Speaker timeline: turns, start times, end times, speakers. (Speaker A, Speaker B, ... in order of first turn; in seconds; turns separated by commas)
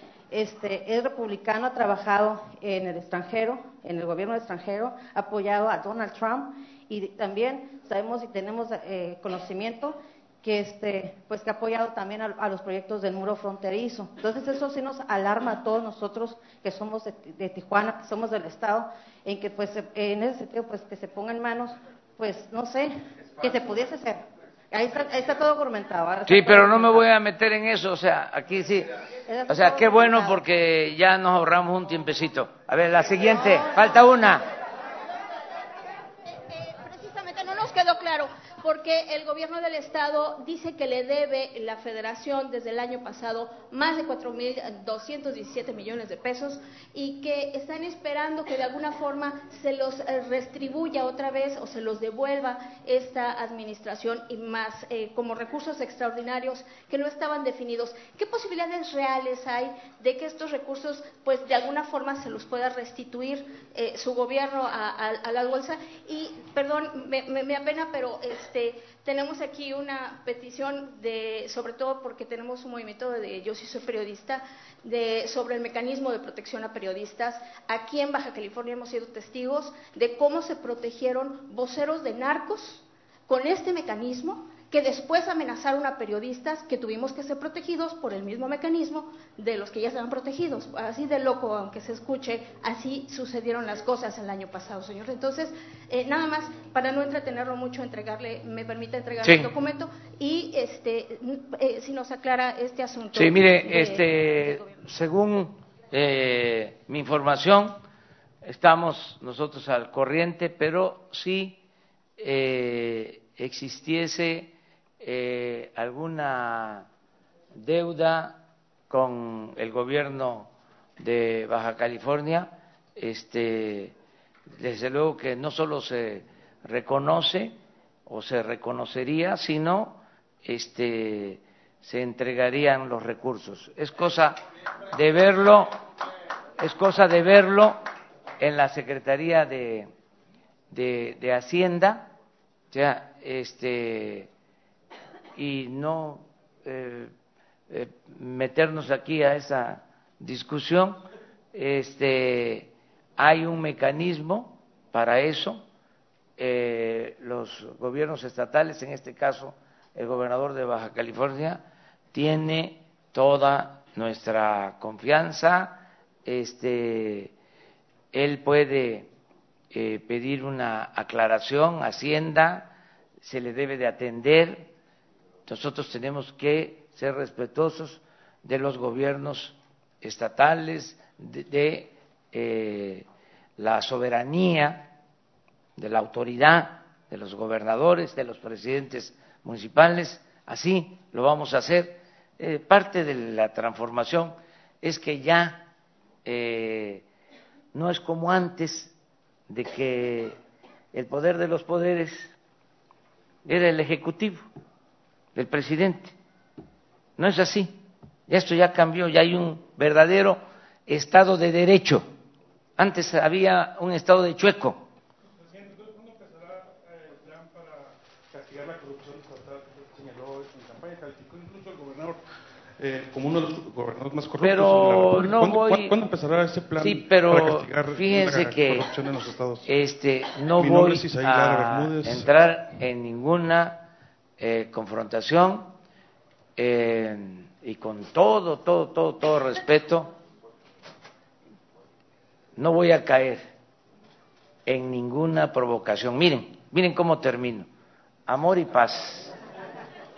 Speaker A: 0.3-27.1, Speaker B: 26.3-28.9, Speaker A: 29.3-30.4, Speaker B: 29.5-34.4, Speaker C: 36.5-104.8, Speaker B: 99.2-99.5, Speaker B: 103.1-107.8, Speaker B: 108.4-111.6, Speaker B: 112.2-116.9, Speaker B: 117.5-123.9, Speaker B: 124.5-134.4, Speaker B: 134.9-135.7, Speaker B: 136.6-137.8, Speaker B: 138.4-139.9, Speaker B: 140.7-142.1, Speaker B: 142.7-144.3, Speaker B: 145.3-147.1, Speaker B: 147.7-151.0, Speaker B: 151.5-155.6, Speaker B: 156.4-167.3, Speaker B: 168.1-169.1, Speaker B: 169.7-174.7, Speaker B: 175.4-183.1, Speaker B: 183.6-184.9, Speaker B: 185.8-195.7, Speaker B: 196.2-197.0, Speaker B: 197.7-198.9, Speaker B: 199.5-200.3, Speaker B: 200.9-202.3, Speaker B: 203.4-204.4, Speaker B: 205.3-206.1, Speaker B: 207.2-212.1, Speaker B: 212.8-214.8, Speaker D: 215.4-222.2, Speaker D: 222.8-229.7, Speaker B: 224.4-226.0, Speaker B: 226.8-228.9, Speaker B: 229.6-233.9, Speaker D: 230.4-232.3, Speaker B: 234.4-235.7, Speaker B: 236.6-240.2, Speaker B: 242.6-243.5, Speaker B: 244.7-247.7, Speaker B: 248.3-249.3